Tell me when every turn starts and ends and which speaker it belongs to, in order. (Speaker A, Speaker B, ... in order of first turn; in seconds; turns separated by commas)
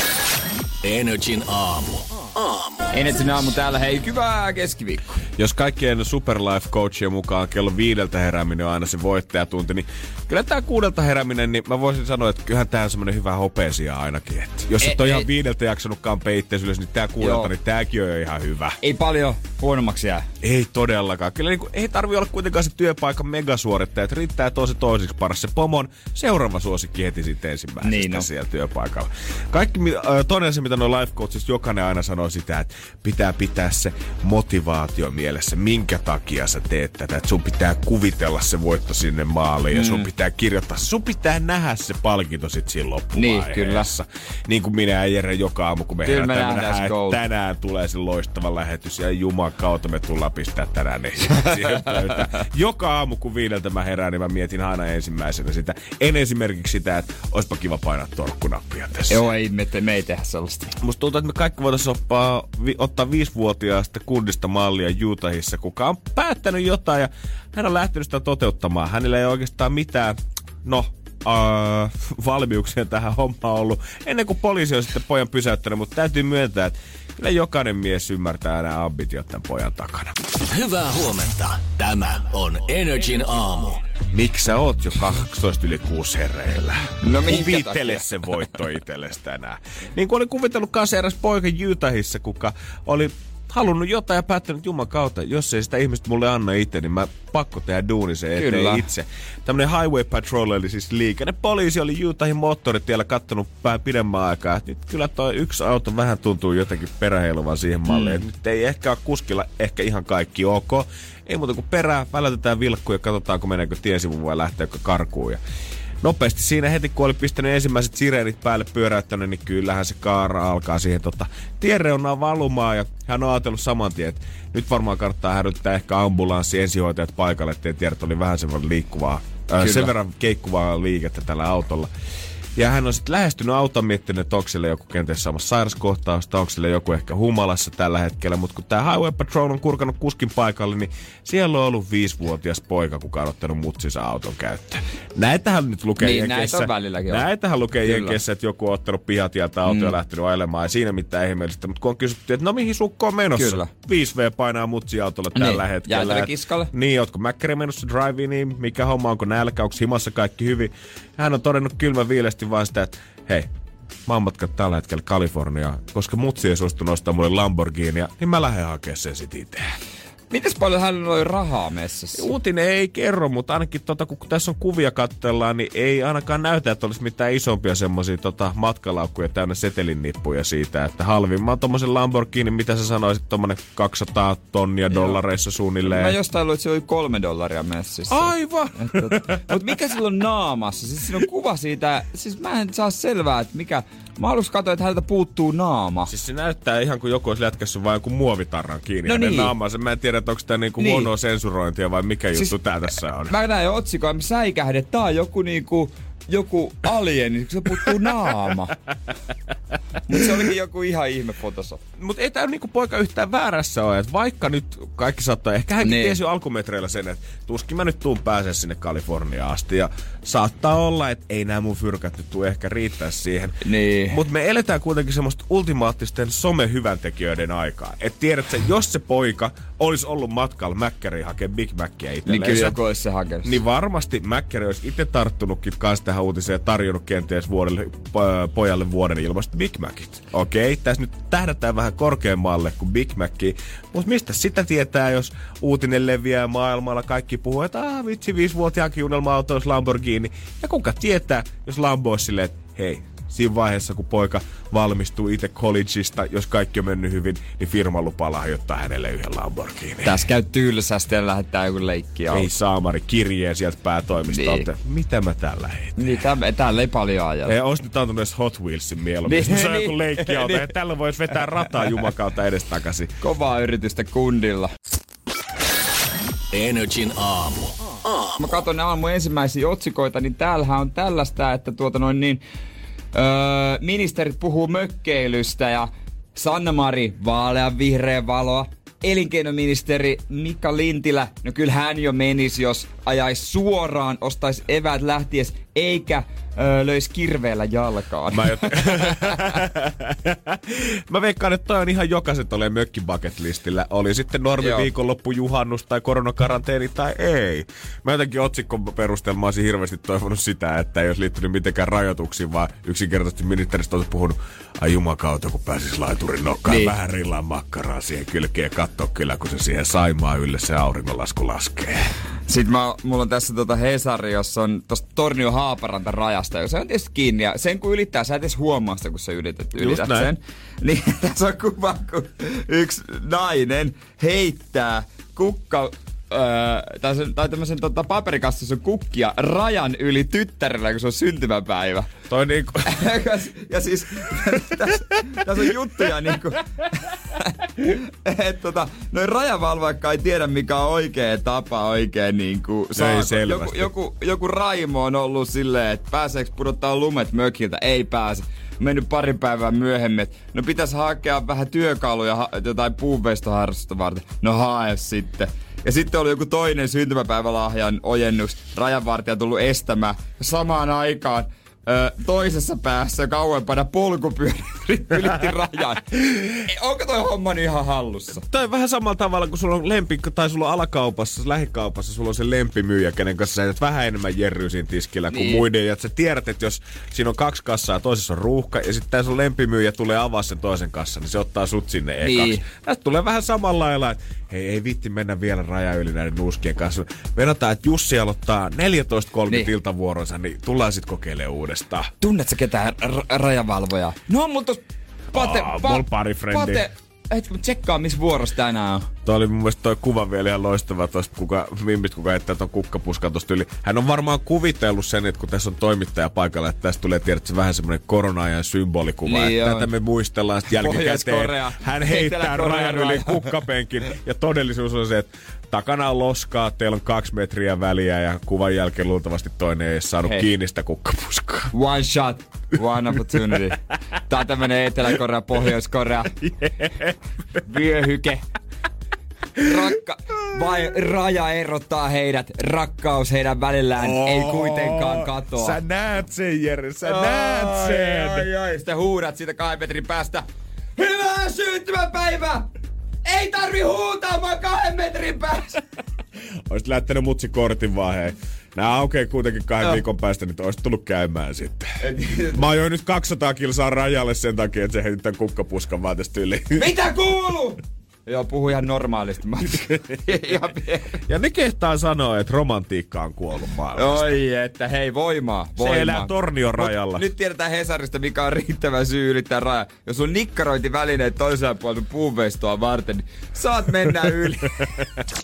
Speaker A: 0.8-2.9, Speaker B: 2.9-5.2, Speaker C: 5.4-18.8, Speaker B: 14.8-15.3, Speaker B: 17.2-17.5, Speaker B: 18.8-20.3, Speaker C: 20.4-59.2, Speaker B: 27.8-28.3, Speaker B: 39.7-40.1, Speaker B: 43.1-43.9, Speaker B: 46.0-47.2, Speaker B: 51.6-51.9, Speaker B: 59.1-60.8, Speaker C: 60.8-80.2, Speaker A: 80.5-83.8, Speaker C: 84.1-115.4, Speaker B: 87.0-88.1, Speaker B: 98.3-98.9, Speaker B: 107.9-108.2, Speaker C: 116.0-131.9, Speaker B: 129.6-129.9, Speaker C: 132.6-163.5, Speaker B: 146.0-147.3, Speaker B: 147.8-148.2, Speaker B: 149.7-150.0, Speaker B: 153.4-153.7, Speaker B: 155.3-156.7, Speaker C: 164.1-169.6, Speaker B: 170.3-172.3, Speaker C: 172.1-186.2, Speaker B: 184.9-185.2, Speaker B: 185.8-196.1, Speaker C: 188.1-189.6, Speaker C: 196.1-203.3, Speaker B: 199.1-199.5, Speaker B: 200.8-201.1, Speaker B: 203.3-208.7, Speaker B: 210.1-211.8, Speaker C: 212.0-232.8, Speaker B: 215.8-216.2, Speaker B: 223.6-224.2, Speaker B: 232.3-233.6, Speaker C: 233.4-260.2, Speaker B: 260.0-262.5, Speaker C: 262.3-266.1, Speaker B: 264.3-264.7, Speaker B: 266.0-267.5, Speaker C: 267.5-273.1, Speaker B: 269.3-270.7, Speaker B: 271.6-272.0, Speaker B: 273.2-274.7, Speaker A: 276.5-278.6, Speaker B: 278.4-282.4, Speaker B: 283.1-299.6, Speaker C: 298.3-322.1, Speaker B: 304.6-304.9, Speaker B: 316.7-317.0, Speaker B: 322.5-342.1, Speaker C: 329.8-330.3, Speaker C: 342.3-343.1, Speaker B: 342.8-378.4, Speaker C: 344.5-345.5, Speaker C: 346.0-346.6, Speaker C: 352.9-353.9, Speaker C: 378.5-402.1, Speaker B: 385.3-385.7, Speaker B: 392.2-392.6, Speaker B: 402.2-404.8, Speaker C: 405.3-406.8, Speaker B: 405.3-409.1, Speaker C: 409.2-431.7, Speaker B: 419.2-419.9, Speaker B: 420.7-423.6, Speaker B: 431.7-436.4, Speaker C: 436.4-437.2, Speaker B: 437.6-438.4, Speaker B: 439.6-445.8, Speaker C: 444.0-448.5, Speaker B: 447.0-450.4, Speaker B: 451.0-452.7, Speaker B: 453.2-455.8, Speaker C: 456.7-461.9, Speaker B: 462.0-462.6, Speaker C: 462.5-466.9, Speaker B: 466.8-471.2, Speaker C: 471.3-474.3, Speaker B: 473.9-484.8, Speaker C: 475.8-477.3, Speaker C: 484.3-485.1